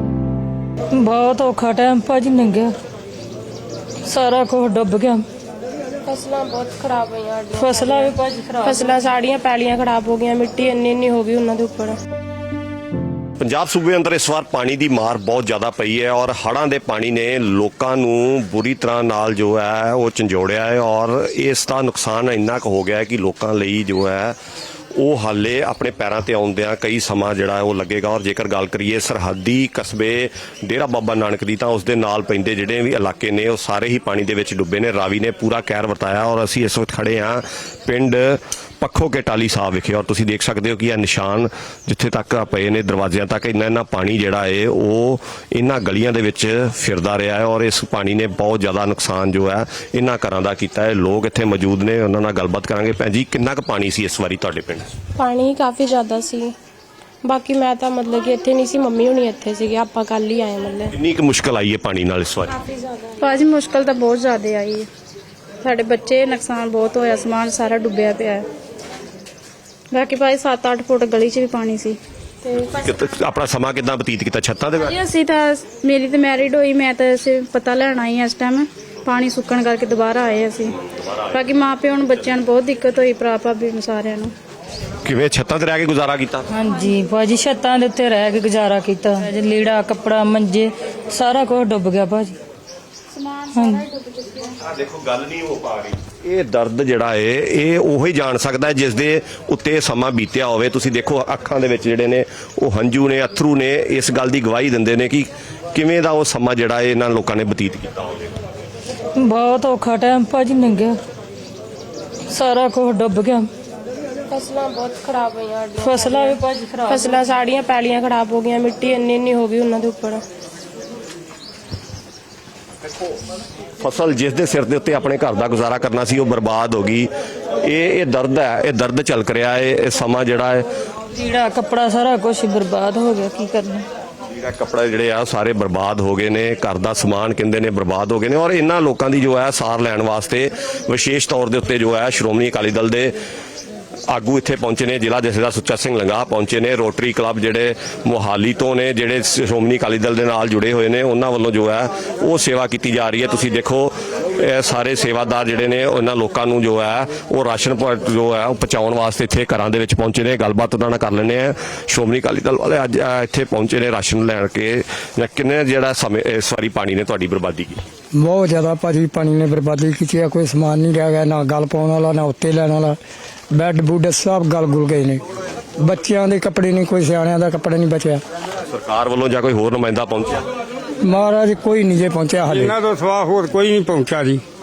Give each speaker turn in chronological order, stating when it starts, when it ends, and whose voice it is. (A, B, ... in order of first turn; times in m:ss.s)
0:00.9-0:02.7 A
0:04.0-0:05.2 A
0:06.0-0:12.0 B
0:07.6-0:08.9 A
0:13.4-0:24.4 C
0:25.0-0:54.9 C
0:55.2-0:56.5 B
0:57.2-1:00.9 B
1:01.0-1:02.5 C
1:02.6-1:03.1 B
1:03.2-1:04.9 D
1:05.6-1:08.5 D
1:09.9-1:12.0 D
1:12.4-1:12.7 B
1:12.8-1:14.9 C
1:14.9-1:20.8 D
1:21.3-1:24.3 D
1:25.0-1:26.4 C
1:26.5-1:32.4 A
1:33.2-1:34.3 D
1:33.5-1:33.8 A
1:34.7-1:48.3 C
1:49.2-1:51.0 A
1:52.3-1:53.5 A
1:54.3-1:56.4 B
1:55.8-1:57.2 A
1:56.9-2:00.2 B
2:03.8-2:07.1 C
2:07.6-2:10.6 C
2:11.1-2:13.8 A
2:14.3-2:23.1 C
2:24.1-2:47.8 C
2:48.1-2:53.0 E
2:53.5-2:55.2 E
2:55.8-2:58.2 E
2:58.7-3:00.4 C
3:01.0-3:02.7 E
3:02.5-3:04.4 F